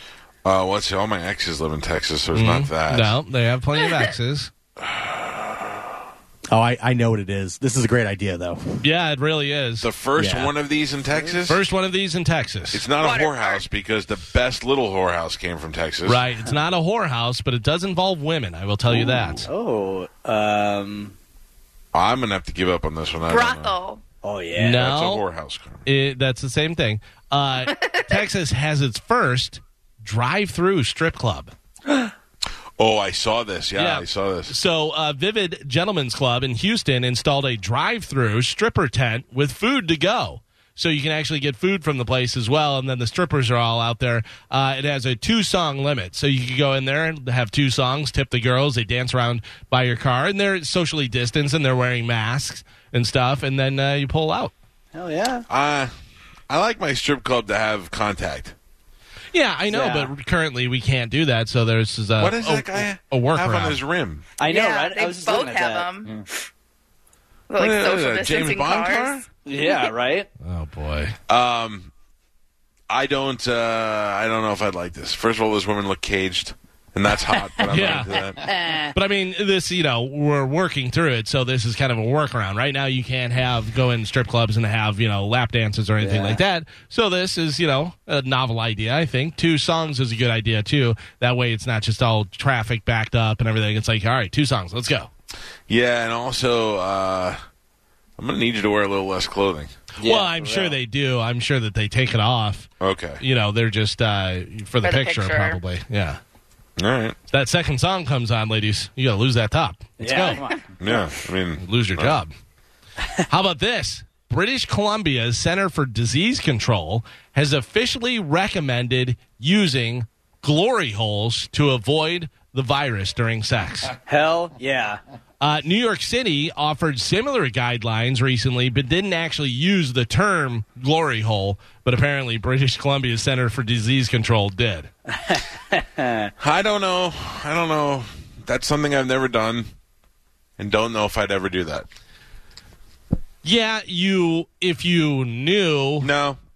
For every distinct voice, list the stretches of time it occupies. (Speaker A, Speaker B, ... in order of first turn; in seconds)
Speaker A: 0.5-3.2, 4.9-5.4, 9.8-11.6, 12.7-16.2, 21.9-23.8, 24.8-25.9, 32.8-34.5, 55.5-55.9, 56.5-58.5, 62.2-64.3, 67.6-69.2, 71.3-71.9, 72.9-78.5, 95.7-97.4, 98.2-99.7, 102.8-103.2, 106.8-107.2, 110.8-112.2, 136.4-139.7, 140.6-141.9, 146.0-146.4
Speaker B: 2.3-4.5, 8.8-9.9, 11.5-12.8, 16.1-19.5, 24.6-25.2, 25.9-31.5, 33.8-54.5, 59.3-63.8, 70.4-71.2, 77.7-78.1, 78.9-95.1, 100.0-102.7, 103.2-106.2, 107.3-110.4, 111.6-112.3, 113.3-123.9, 125.4-134.9, 143.4-146.1
Speaker C: 6.5-8.8, 10.2-10.5
Speaker D: 13.0-13.6, 23.3-24.0, 27.6-28.1, 64.4-66.2, 67.5-69.2, 104.8-105.6
Speaker E: 18.9-21.1, 24.2-24.8, 54.9-55.5, 59.7-60.1, 64.4-66.1, 69.5-70.3, 77.7-78.9, 86.0-86.4, 100.0-100.8, 110.0-111.1, 124.1-125.0, 135.1-136.3